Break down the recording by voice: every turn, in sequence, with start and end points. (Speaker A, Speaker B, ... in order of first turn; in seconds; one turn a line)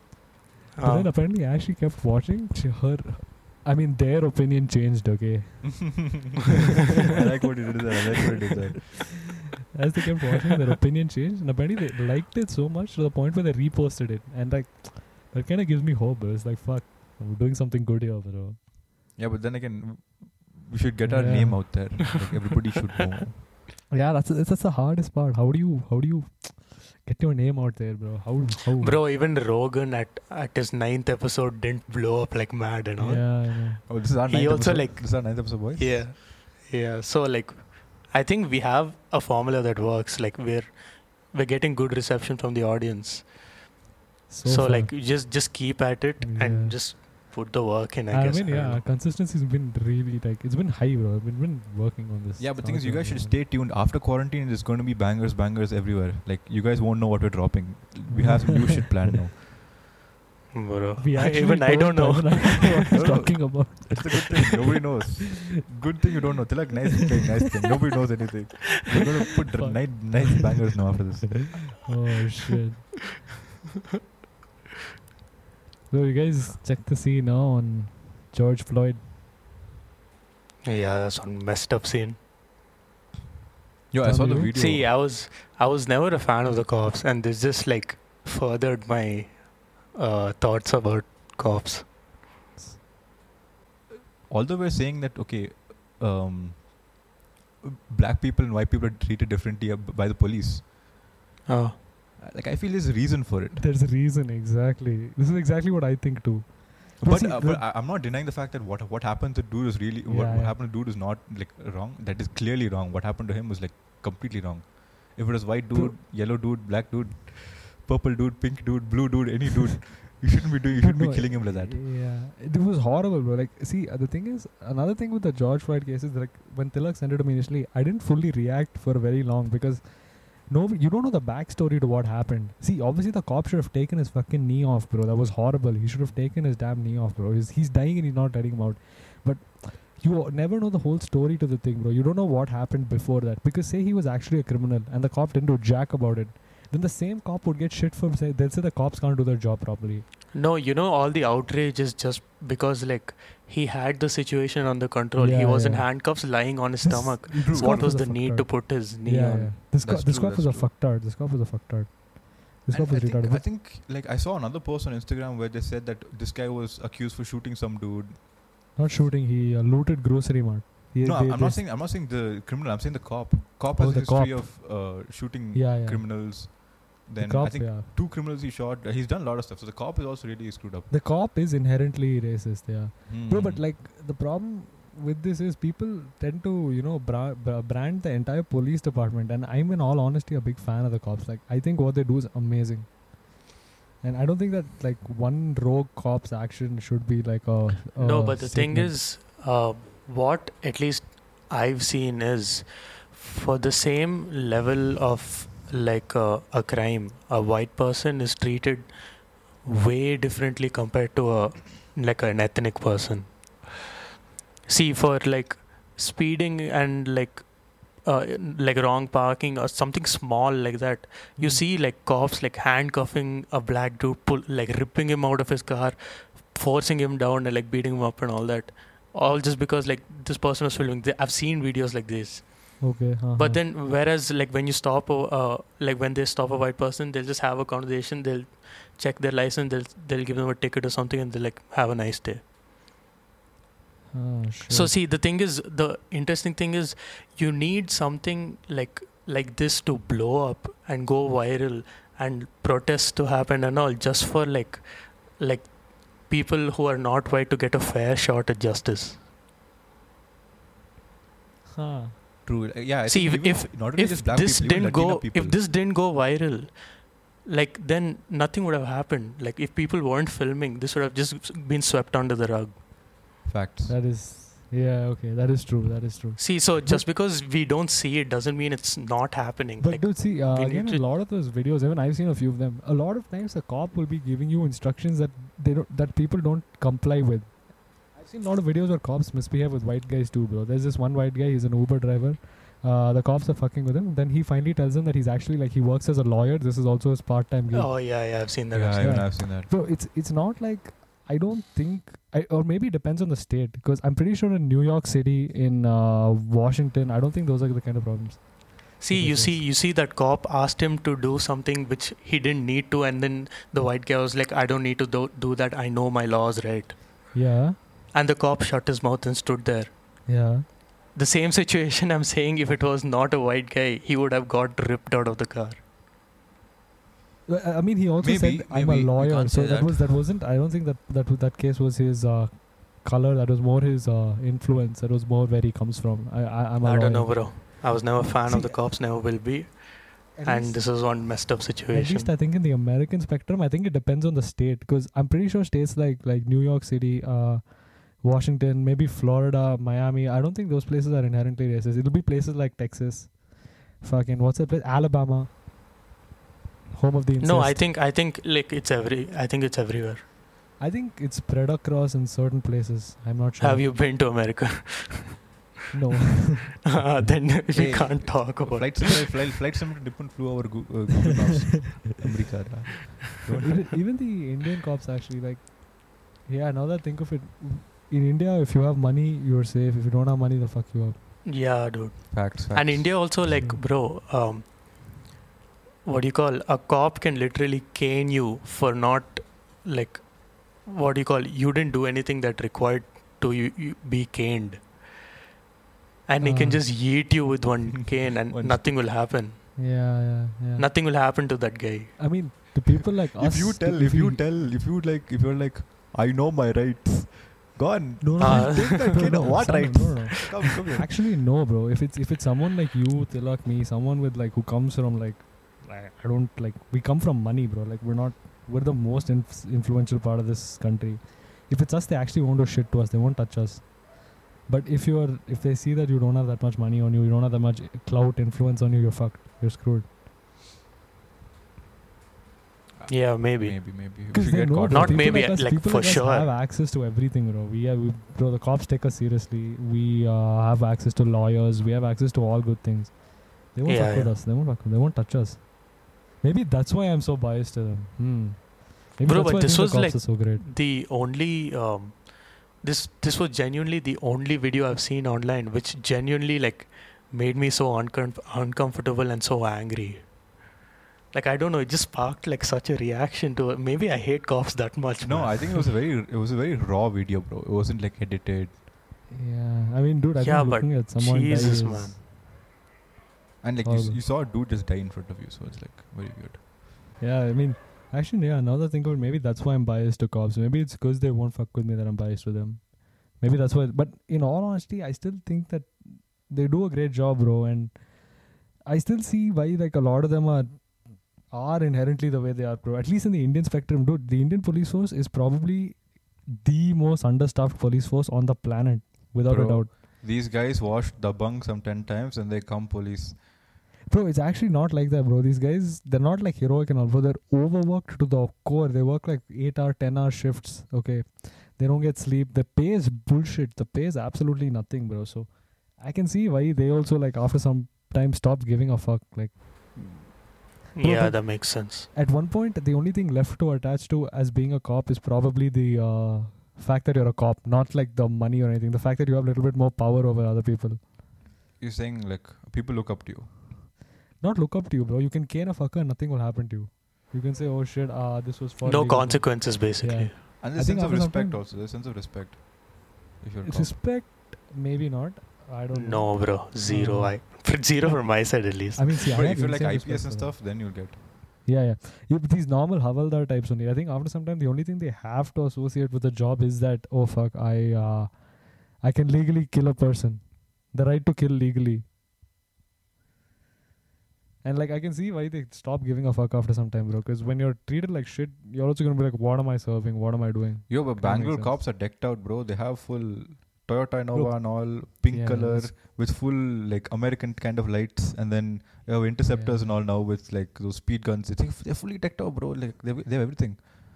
Speaker A: 0.8-1.1
Speaker B: 0.8-6.1
Speaker C: 5.9-6.3
Speaker C: 7.1-9.2
Speaker B: 9.8-18.6
Speaker C: 19.2-23.4
Speaker B: 21.1-22.0
Speaker B: 23.9-29.0
Speaker A: 28.8-43.5
Speaker B: 33.0-33.8
Speaker C: 33.9-36.1
Speaker B: 44.3-44.9
Speaker A: 44.5-48.8
Speaker B: 46.2-46.8
Speaker B: 48.1-53.4
Speaker C: 52.4-59.4
Speaker B: 58.1-59.1
Speaker A: 60.5-62.9
Speaker B: 61.0-64.5
Speaker C: 62.9-71.8
Speaker B: 69.5-70.4
Speaker B: 71.8-73.1
Speaker B: 75.9-79.1
Speaker A: 80.6-82.2
Speaker C: 83.9-84.9
Speaker B: 84.0-84.5
Speaker A: 84.5-91.9
Speaker C: 94.3-96.8
Speaker C: 97.6-100.7
Speaker A: 101.5-101.8
Speaker C: 102.2-103.7
Speaker B: 103.6-107.7
Speaker C: 107.0-121.8
Speaker B: 110.1-110.5
Speaker B: 120.8-150.1
Speaker A: 150.3-159.6
Speaker B: 155.2-163.4
Speaker C: 157.4-158.0
Speaker C: 159.8-160.7
Speaker C: 162.7-168.2
Speaker B: 168.8-171.6
Speaker C: 171.0-180.9
Speaker B: 173.8-174.9
Speaker B: 175.5-176.1
Speaker B: 177.2-177.9
Speaker B: 180.9-193.1
Speaker C: 183.1-183.6
Speaker B: 194.0-199.0
Speaker A: 198.0-208.9
Speaker A: 209.6-213.5
Speaker A: 214.7-242.4
Speaker B: 221.4-221.6
Speaker B: 232.8-233.6
Speaker B: 244.1-244.9
Speaker A: 244.7-259.2
Speaker B: 261.7-262.1
Speaker C: 262.5-265.6
Speaker A: 263.1-272.8
Speaker C: 273.4-274.0
Speaker B: 273.9-277.1
Speaker A: 276.4-281.1
Speaker B: 279.8-297.9
Speaker A: 297.7-299.3
Speaker C: 298.7-299.7
Speaker B: 299.0-309.6
Speaker A: 309.0-317.4
Speaker B: 317.3-317.8
Speaker A: 318.1-319.9
Speaker B: 320.3-320.7
Speaker A: 321.1-325.8
Speaker B: 327.5-338.8
Speaker C: 328.2-330.2
Speaker A: 336.8-342.3
Speaker B: 340.4-341.2
Speaker B: 341.9-355.5
Speaker B: 356.9-357.9
Speaker A: 357.4-360.2
Speaker B: 360.8-363.9
Speaker A: 363.6-365.4
Speaker B: 365.9-366.8
Speaker A: 366.9-369.3
Speaker C: 367.7-374.0
Speaker B: 373.6-381.2
Speaker A: 381.4-384.7
Speaker C: 382.3-383.4
Speaker A: 386.1-395.1
Speaker A: 396.3-399.8
Speaker B: 396.4-396.9
Speaker C: 398.5-398.9
Speaker B: 399.8-400.9
Speaker A: 400.8-402.3
Speaker B: 402.2-404.4
Speaker C: 403.4-411.1
Speaker B: 408.2-424.1
Speaker A: 408.4-409.6
Speaker B: 424.6-430.1
Speaker C: 433.0-435.5
Speaker A: 433.1-434.0
Speaker B: 434.3-450.6
Speaker A: 434.9-436.5
Speaker A: 443.9-444.3
Speaker A: 449.2-460.4
Speaker A: 461.3-465.9
Speaker C: 465.2-468.8
Speaker B: 469.3-472.2
Speaker A: 470.4-472.2
Speaker C: 473.6-476.6
Speaker B: 473.8-474.2
Speaker B: 477.2-488.0
Speaker B: 488.9-499.9
Speaker C: 499.5-503.4
Speaker B: 504.1-520.4
Speaker A: 521.0-522.1
Speaker B: 521.0-531.0
Speaker C: 531.8-533.5
Speaker B: 534.4-541.6
Speaker A: 538.8-540.4
Speaker C: 540.6-544.0
Speaker B: 543.6-547.4
Speaker A: 545.9-549.1
Speaker B: 549.0-550.6
Speaker C: 549.3-551.2
Speaker B: 551.6-562.0
Speaker B: 564.6-571.8
Speaker C: 570.9-583.8
Speaker B: 574.3-576.0
Speaker B: 579.5-579.9